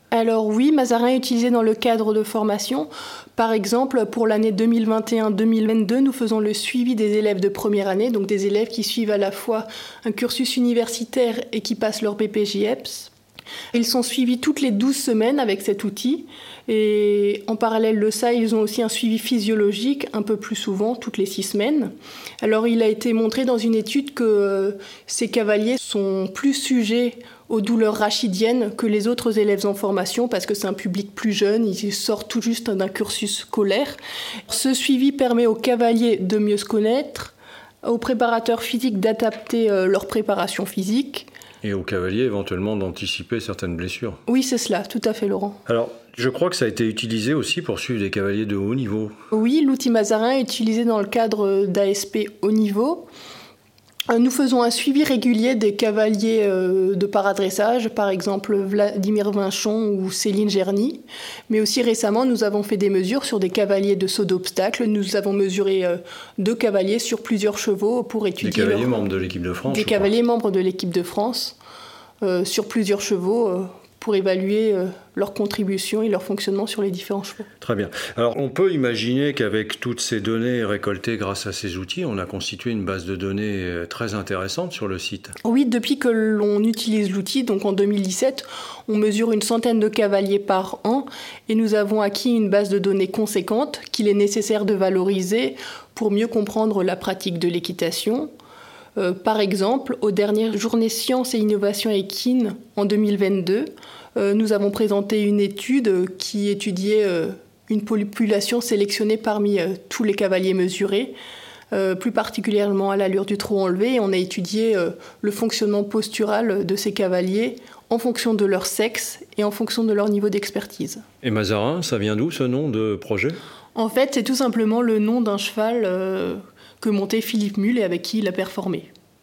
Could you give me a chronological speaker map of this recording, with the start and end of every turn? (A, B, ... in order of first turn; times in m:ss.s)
0:00.1-0:13.1 A
0:13.7-0:34.0 A
0:34.5-0:41.3 A
0:41.6-0:44.2 B
0:44.3-0:45.6 A
0:45.7-0:49.1 B
0:49.3-0:53.1 A
0:54.1-1:09.0 A
1:08.4-1:10.0 B
1:09.7-1:11.6 A
1:12.2-1:17.4 A
1:17.6-1:25.3 B
1:25.4-1:38.3 A
1:39.0-1:51.2 A
1:51.7-2:01.0 A
2:01.2-2:03.4 B
2:03.7-2:08.9 A